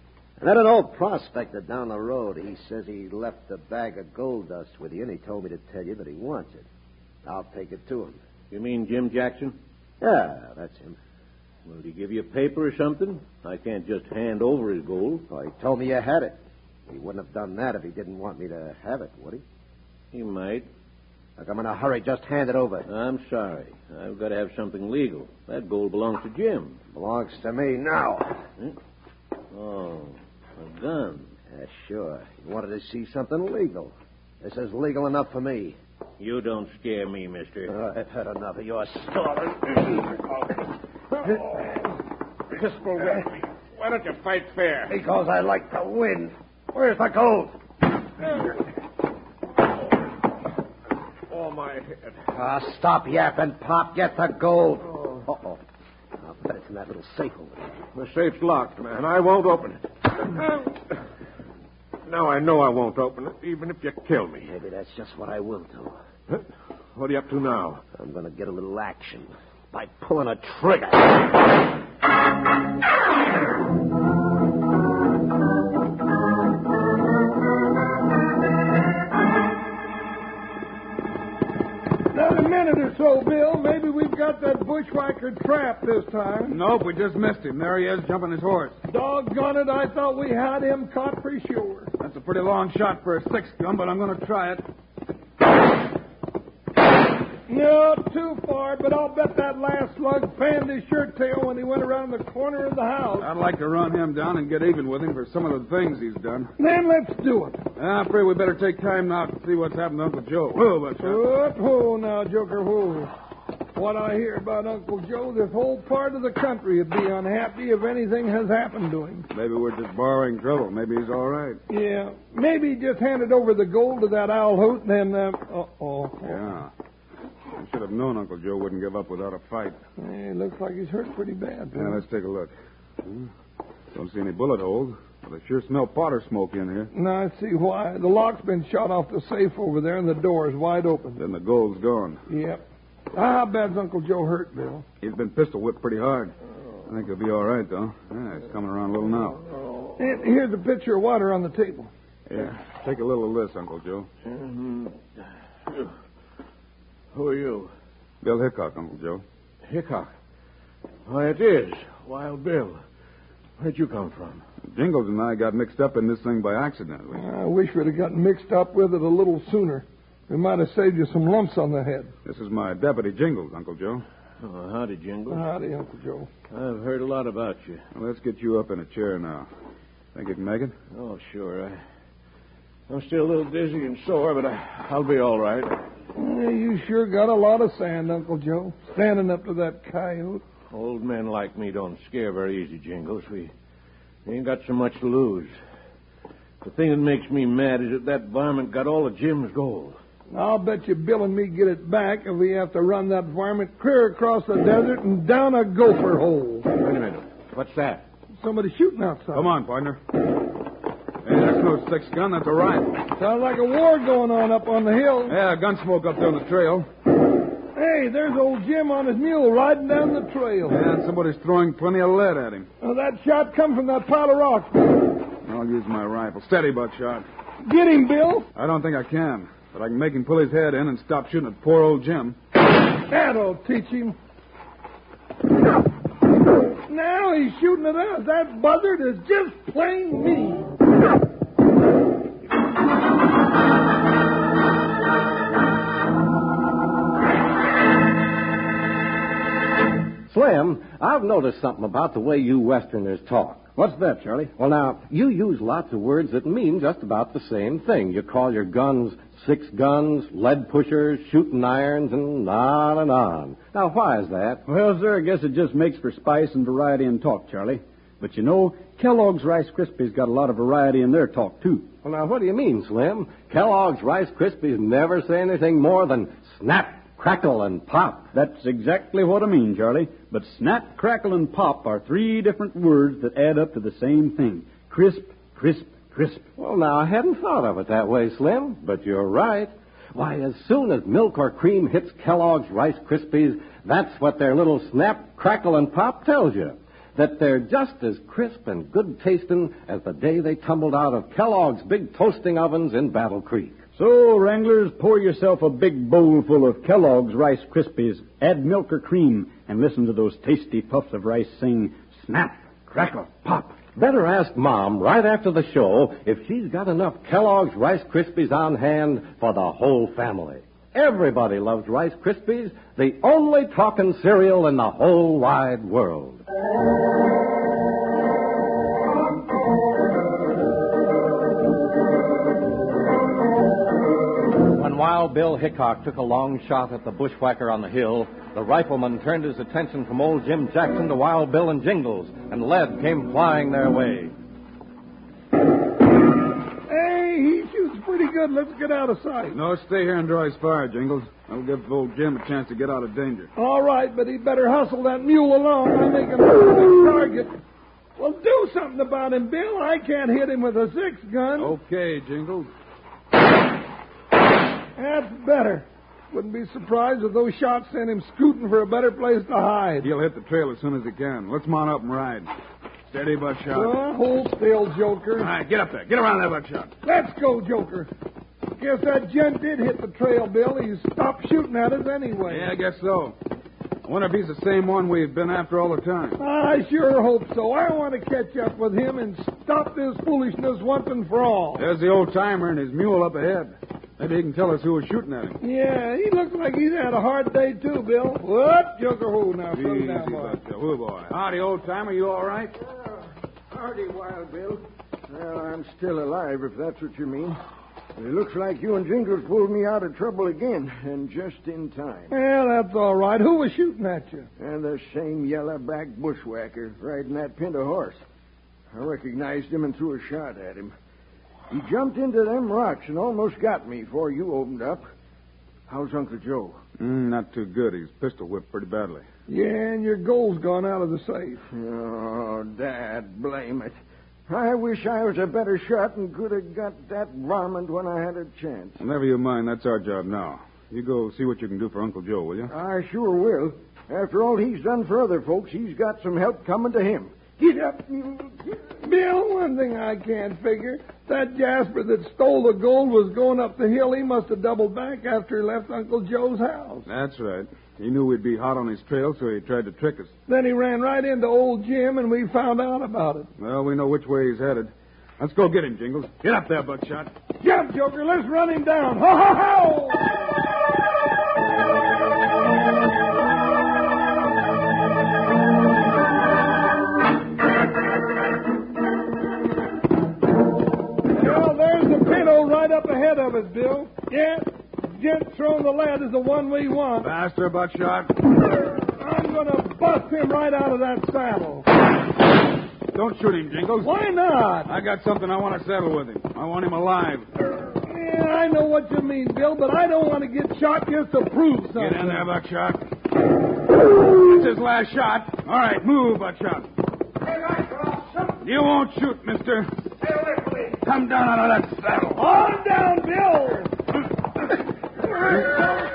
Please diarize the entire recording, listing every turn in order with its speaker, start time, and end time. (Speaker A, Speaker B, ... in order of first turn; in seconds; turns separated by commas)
Speaker A: 0.4-6.7, Speaker A: 7.2-8.2, Speaker B: 8.5-9.6, Speaker A: 10.0-11.0, Speaker B: 11.7-15.2, Speaker A: 15.3-19.4, Speaker B: 20.1-20.7, Speaker A: 21.4-22.9, Speaker B: 22.9-26.8, Speaker A: 26.9-28.4, Speaker B: 29.5-31.3, Speaker A: 31.5-35.8, Speaker B: 36.2-37.7, Speaker A: 37.7-40.1, Speaker B: 42.5-44.9, Speaker A: 44.9-47.6, Speaker B: 51.3-52.2, Speaker A: 52.3-55.6, Speaker A: 56.2-57.7, Speaker B: 58.0-60.7, Speaker B: 62.0-64.5, Speaker A: 64.5-66.0, Speaker B: 67.0-67.8, Speaker A: 68.0-71.2, Speaker C: 82.1-86.6, Speaker D: 86.5-88.8, Speaker C: 88.9-91.9, Speaker D: 92.0-94.6, Speaker C: 97.5-103.3, Speaker D: 103.2-106.5, Speaker C: 106.6-107.6, Speaker D: 107.8-111.2, Speaker C: 111.0-113.1, Speaker C: 113.8-119.3, Speaker D: 119.3-121.6, Speaker C: 121.7-126.4, Speaker D: 126.2-126.7, Speaker D: 127.6-129.8, Speaker C: 130.0-132.0, Speaker D: 131.7-132.5, Speaker D: 133.9-136.9, Speaker C: 136.9-141.2, Speaker D: 141.2-142.2, Speaker C: 142.3-142.6, Speaker C: 143.1-144.8, Speaker D: 145.0-146.3, Speaker D: 146.9-149.4, Speaker C: 150.0-151.9, Speaker D: 152.3-154.1, Speaker B: 154.3-155.0, Speaker B: 157.1-157.7, Speaker D: 158.2-159.2, Speaker B: 159.7-160.1, Speaker B: 161.1-162.8, Speaker B: 163.6-164.4, Speaker D: 164.7-167.2, Speaker C: 167.1-172.1, Speaker D: 172.2-174.1, Speaker B: 174.4-175.4, Speaker C: 175.3-176.3, Speaker B: 176.5-177.8, Speaker D: 177.9-179.5, Speaker D: 180.2-180.7, Speaker B: 180.9-181.8, Speaker B: 182.9-185.8, Speaker C: 186.2-190.4, Speaker B: 190.7-193.5, Speaker B: 194.3-195.5, Speaker B: 196.6-200.0, Speaker C: 200.3-206.7, Speaker B: 206.8-208.0, Speaker C: 208.4-209.5, Speaker D: 209.3-210.0, Speaker D: 211.2-213.0, Speaker C: 213.2-215.4, Speaker D: 215.3-216.9, Speaker C: 217.8-220.9, Speaker D: 220.7-222.7, Speaker C: 222.8-225.0, Speaker D: 225.4-227.2, Speaker C: 227.6-228.5, Speaker D: 228.6-232.4, Speaker C: 233.1-234.2, Speaker C: 236.9-240.7, Speaker E: 250.3-253.8, Speaker F: 253.8-254.5, Speaker E: 254.4-264.6, Speaker F: 264.7-271.9, Speaker E: 272.0-278.3, Speaker F: 278.3-286.5, Speaker E: 286.6-303.8, Speaker F: 304.0-313.7, Speaker E: 313.6-326.4, Speaker E: 334.7-344.4, Speaker C: 346.9-349.6, Speaker D: 349.5-353.5, Speaker C: 353.6-357.6, Speaker C: 358.2-361.7, Speaker D: 361.6-362.7, Speaker C: 365.0-370.1, Speaker D: 370.0-372.5, Speaker D: 373.1-374.0, Speaker C: 373.7-375.5, Speaker D: 375.4-376.9, Speaker C: 377.0-378.1, Speaker C: 378.8-382.7, Speaker D: 382.5-383.4, Speaker D: 384.1-386.4, Speaker C: 386.4-391.9, Speaker D: 391.8-395.6, Speaker C: 395.6-400.6, Speaker D: 399.7-402.7, Speaker G: 402.8-407.6, Speaker G: 408.2-412.3, Speaker C: 412.3-414.5, Speaker G: 414.6-418.2, Speaker G: 418.9-420.9, Speaker G: 421.7-425.0, Speaker G: 425.9-426.8, Speaker D: 427.0-429.2, Speaker C: 429.5-431.6, Speaker G: 431.7-434.0, Speaker G: 434.5-439.0, Speaker D: 439.0-442.7, Speaker G: 442.7-448.8, Speaker C: 449.0-457.1, Speaker D: 457.1-460.3, Speaker C: 460.5-463.5, Speaker D: 463.6-467.3, Speaker C: 467.6-470.4, Speaker C: 481.3-487.3, Speaker D: 487.2-488.5, Speaker C: 489.1-491.9, Speaker D: 493.1-494.1, Speaker C: 494.0-494.9, Speaker D: 494.9-497.5, Speaker C: 498.0-502.5, Speaker D: 502.0-503.0, Speaker D: 504.2-506.9, Speaker A: 507.4-508.6, Speaker D: 508.6-510.0, Speaker A: 510.2-510.9, Speaker D: 511.0-512.5, Speaker C: 512.4-514.0, Speaker C: 515.4-515.9